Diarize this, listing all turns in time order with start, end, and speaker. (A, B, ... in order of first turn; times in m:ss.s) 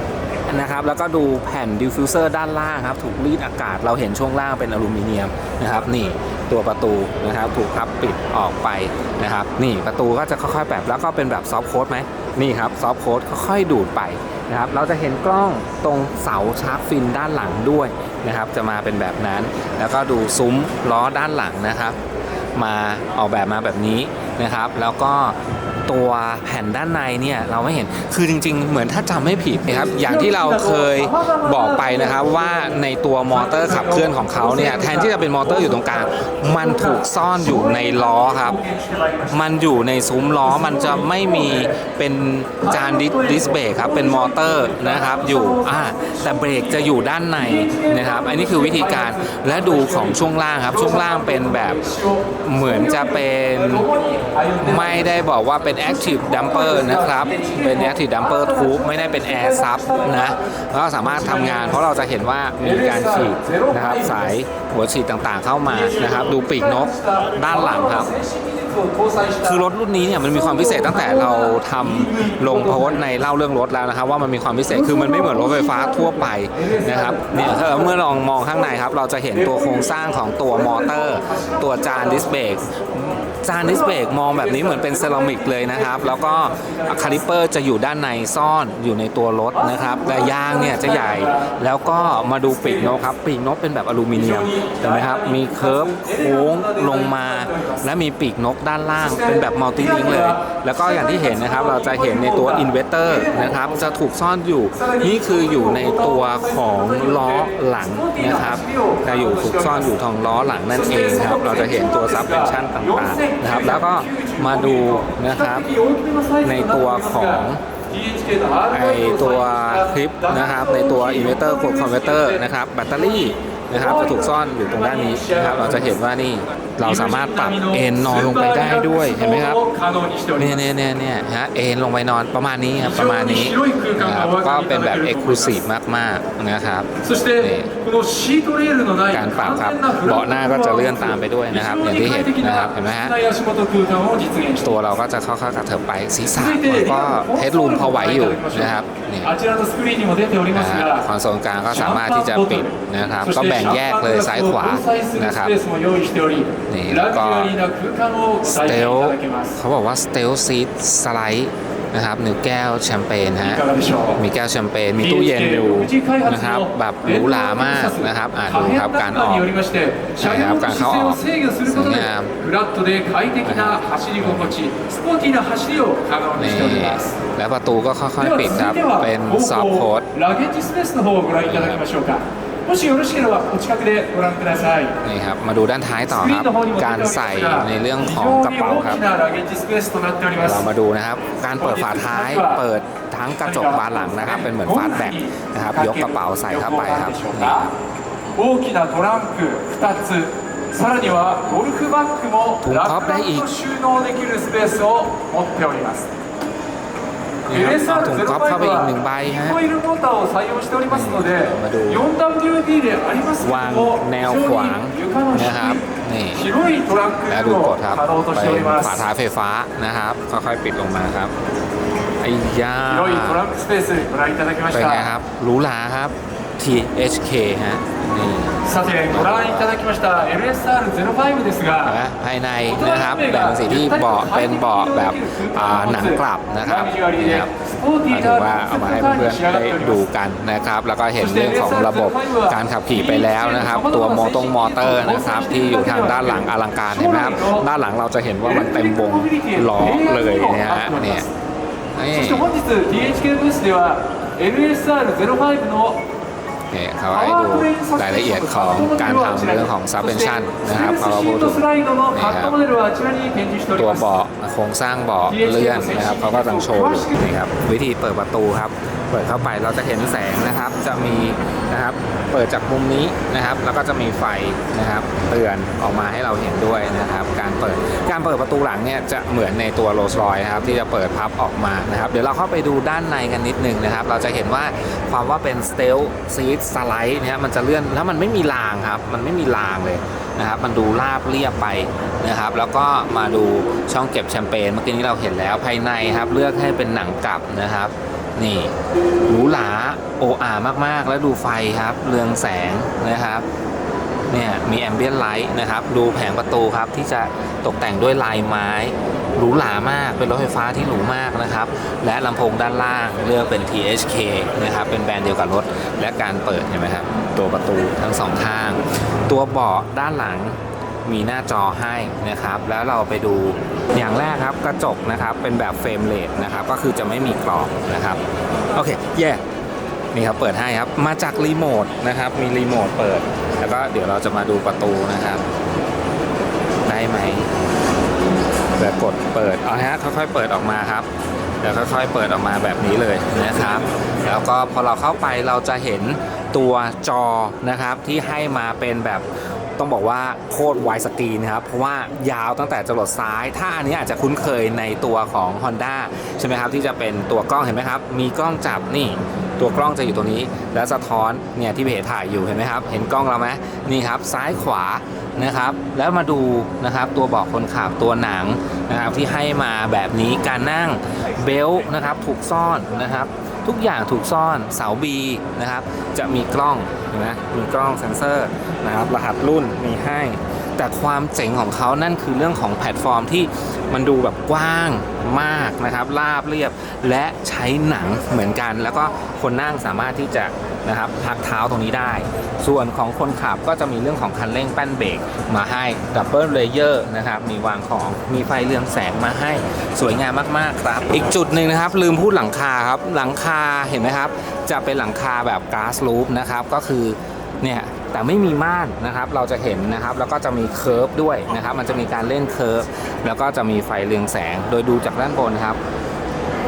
0:00.5-0:22.0 A
0:22.5-0:38.6 A
0:29.8-0:39.4 B
0:39.3-0:51.8 A
0:40.4-0:41.8 B
0:42.6-1:00.4 B
0:52.4-0:53.9 A
0:54.6-1:08.1 A
1:01.0-1:01.9 B
1:02.6-1:04.4 B
1:05.7-1:09.6 B
1:09.4-1:55.7 A
1:10.2-1:13.2 B
1:14.7-1:18.0 B
1:19.3-1:22.8 B
1:23.5-1:27.2 B
1:29.5-1:33.0 B
1:34.1-1:37.8 B
1:39.0-1:44.0 B
1:44.7-2:06.0 B
1:56.4-1:57.6 A
1:58.7-2:09.6 A
2:06.8-2:10.7 B
2:10.4-2:17.7 A
2:12.8-2:15.6 B
2:17.0-2:24.7 B
2:19.1-2:23.2 A
2:24.6-2:29.3 A
2:26.3-2:31.1 B
2:30.5-2:35.5 A
2:31.7-2:39.6 B
2:36.7-2:37.5 A
2:38.5-2:43.6 A
2:43.4-2:44.2 B
2:44.2-2:49.5 A
2:45.0-2:57.2 B
2:50.2-2:52.3 A
2:53.4-2:54.6 A
2:56.4-3:00.1 A
2:58.2-3:04.9 B
3:01.4-3:01.8 A
3:05.0-3:09.0 A
3:06.0-3:10.6 B
3:10.4-3:17.7 A
3:11.6-3:12.6 B
3:13.4-3:17.7 B
3:18.4-3:26.1 B
3:22.6-3:23.5 A
3:27.5-3:29.6 A
3:27.5-3:35.8 B
3:30.9-3:32.0 A
3:33.4-3:36.4 A
3:36.3-3:39.0 B
3:37.3-3:41.3 A
3:42.2-3:43.4 A
3:42.9-3:45.1 B
3:44.7-3:49.7 A
3:48.7-3:52.0 B
3:51.8-3:57.5 A
3:52.7-4:00.1 B
3:58.1-4:11.3 A
4:01.2-4:07.7 B
4:08.4-4:11.3 B
4:12.0-4:12.5 A
4:12.1-4:16.0 B
4:16.7-4:22.6 A
4:17.1-4:24.1 B
4:23.8-4:58.7 A
4:25.3-4:27.2 B
4:59.3-5:03.4 A
5:04.3-5:28.2 A
5:28.7-5:29.4 A
5:30.1-5:35.4 A
5:36.9-5:37.5 A
5:38.8-5:41.1 A
5:41.6-5:49.2 A
5:49.8-6:55.8 A